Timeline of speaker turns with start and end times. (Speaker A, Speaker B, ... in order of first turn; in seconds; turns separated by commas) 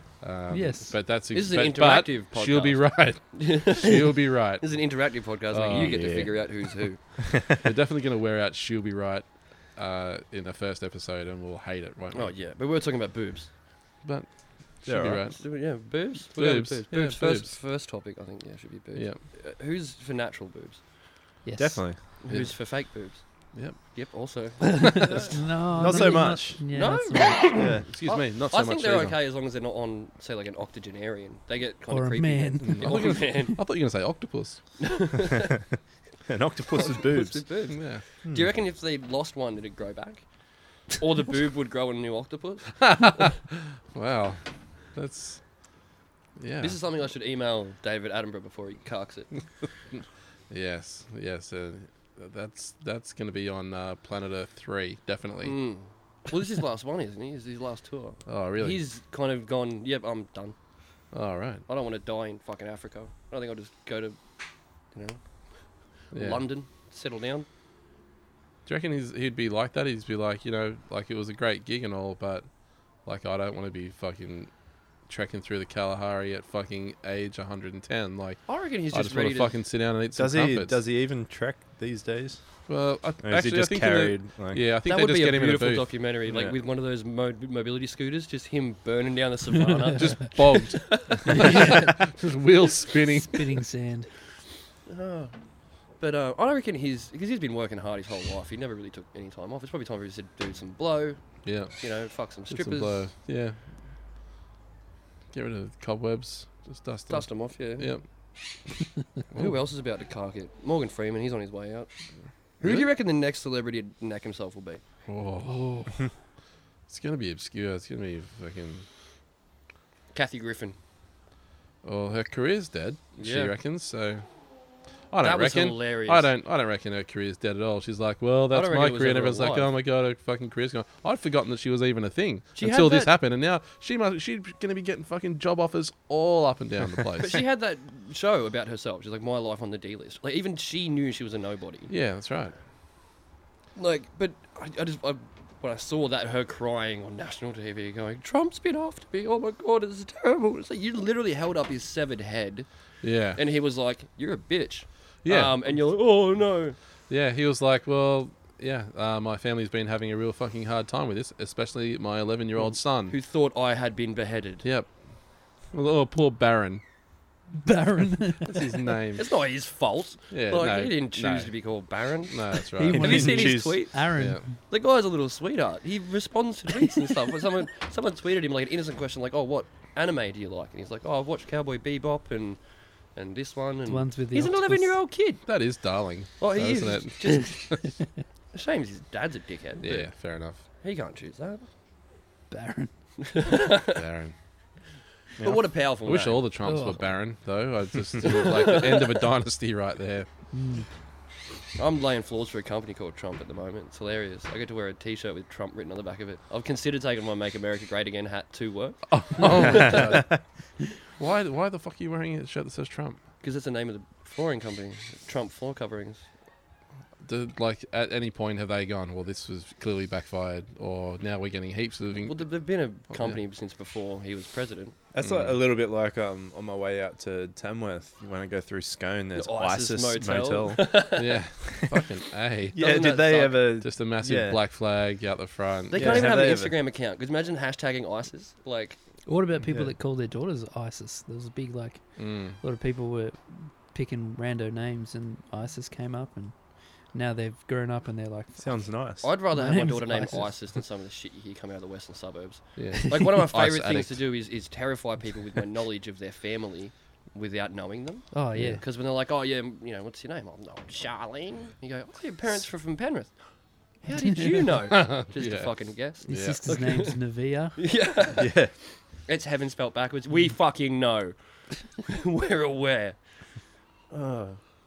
Speaker A: 0.2-4.7, Speaker B: 0.5-0.9, Speaker C: 1.3-7.2, Speaker A: 5.5-6.2, Speaker D: 5.7-6.5, Speaker D: 7.2-7.6, Speaker A: 7.6-12.3, Speaker C: 12.1-13.5, Speaker A: 14.0-15.4, Speaker D: 14.8-15.2, Speaker C: 15.3-20.8, Speaker A: 16.4-17.5, Speaker B: 21.4-21.8, Speaker D: 21.6-22.0, Speaker C: 22.2-25.4, Speaker A: 22.3-22.6, Speaker B: 24.6-27.5, Speaker D: 25.8-26.6, Speaker C: 26.7-33.6, Speaker D: 27.6-27.9, Speaker A: 27.8-29.2, Speaker B: 31.9-33.5, Speaker A: 32.6-34.6, Speaker C: 34.8-35.6, Speaker D: 36.3-37.5, Speaker C: 36.7-40.2, Speaker A: 37.7-38.0, Speaker C: 40.9-43.3, Speaker A: 42.8-44.4, Speaker A: 44.9-45.4, Speaker A: 46.4-46.8, Speaker C: 46.6-49.4, Speaker A: 50.5-55.6, Speaker C: 55.4-60.6, Speaker A: 58.3-58.8, Speaker A: 61.1-61.6, Speaker C: 61.7-64.2, Speaker A: 66.1-66.4, Speaker C: 66.1-67.5, Speaker A: 68.7-72.5, Speaker A: 73.0-74.5, Speaker A: 75.1-80.8, Speaker C: 78.5-79.5, Speaker D: 80.2-82.4, Speaker A: 82.7-85.9, Speaker D: 83.2-84.6, Speaker C: 84.8-91.8, Speaker D: 86.3-86.5, Speaker A: 89.9-93.5, Speaker B: 91.3-91.9, Speaker B: 93.1-94.1, Speaker C: 94.9-95.3, Speaker C: 96.0-103.0, Speaker A: 101.4-101.8, Speaker A: 102.5-103.6, Speaker A: 105.3-108.0, Speaker C: 107.1-107.9, Speaker C: 109.3-111.9, Speaker C: 112.6-114.8, Speaker A: 112.6-112.9, Speaker A: 115.1-115.8, Speaker B: 115.5-115.9, Speaker A: 116.9-118.9, Speaker C: 120.1-120.8, Speaker A: 121.8-124.2, Speaker C: 123.2-123.5, Speaker A: 125.1-137.4, Speaker C: 125.2-126.3, Speaker C: 128.5-129.7, Speaker C: 132.6-133.1, Speaker C: 137.2-141.9, Speaker A: 141.9-142.5, Speaker C: 143.8-152.7, Speaker A: 153.0-153.4, Speaker C: 153.3-156.8, Speaker A: 155.2-155.6, Speaker A: 157.1-163.2, Speaker C: 162.6-164.7, Speaker A: 164.6-164.9, Speaker A: 165.7-166.8, Speaker B: 167.6-168.7, Speaker A: 168.4-169.2, Speaker C: 169.2-174.1, Speaker A: 170.3-171.5, Speaker A: 172.3-173.3, Speaker B: 172.8-174.6, Speaker D: 172.9-173.8, Speaker C: 174.7-182.6, Speaker C: 183.2-185.4, Speaker B: 183.9-185.0, Speaker A: 185.5-187.9, Speaker C: 186.4-187.8, Speaker C: 188.5-190.1, Speaker A: 189.8-190.6, Speaker C: 190.6-191.7, Speaker B: 192.5-192.9, Speaker C: 193.2-194.0, Speaker A: 193.9-194.3, Speaker C: 195.4-196.4, Speaker A: 196.1-200.3, Speaker B: 196.6-197.0, Speaker C: 198.2-199.3, Speaker B: 200.5-200.9, Speaker C: 201.8-210.2, Speaker A: 209.1-210.4, Speaker A: 211.2-213.2, Speaker C: 213.4-216.2, Speaker A: 217.2-222.4, Speaker C: 222.2-225.0, Speaker D: 225.1-231.1, Speaker A: 225.2-225.6, Speaker C: 229.3-231.4, Speaker A: 231.2-233.0, Speaker D: 231.7-232.0, Speaker C: 232.8-233.7, Speaker D: 232.8-234.6, Speaker A: 233.8-236.3, Speaker C: 235.9-239.0, Speaker D: 235.9-236.8, Speaker B: 239.3-242.0, Speaker D: 239.7-239.9, Speaker A: 242.2-242.6, Speaker B: 242.6-246.6, Speaker B: 247.1-248.9, Speaker D: 248.6-249.3, Speaker C: 249.2-263.4, Speaker B: 249.5-250.5, Speaker A: 252.8-254.2, Speaker B: 258.3-258.8, Speaker C: 264.0-267.2, Speaker A: 264.8-265.7, Speaker B: 266.3-267.8, Speaker A: 266.3-266.7, Speaker C: 267.8-268.7, Speaker D: 268.4-268.7, Speaker C: 269.3-271.4, Speaker C: 272.0-273.2, Speaker C: 274.1-274.6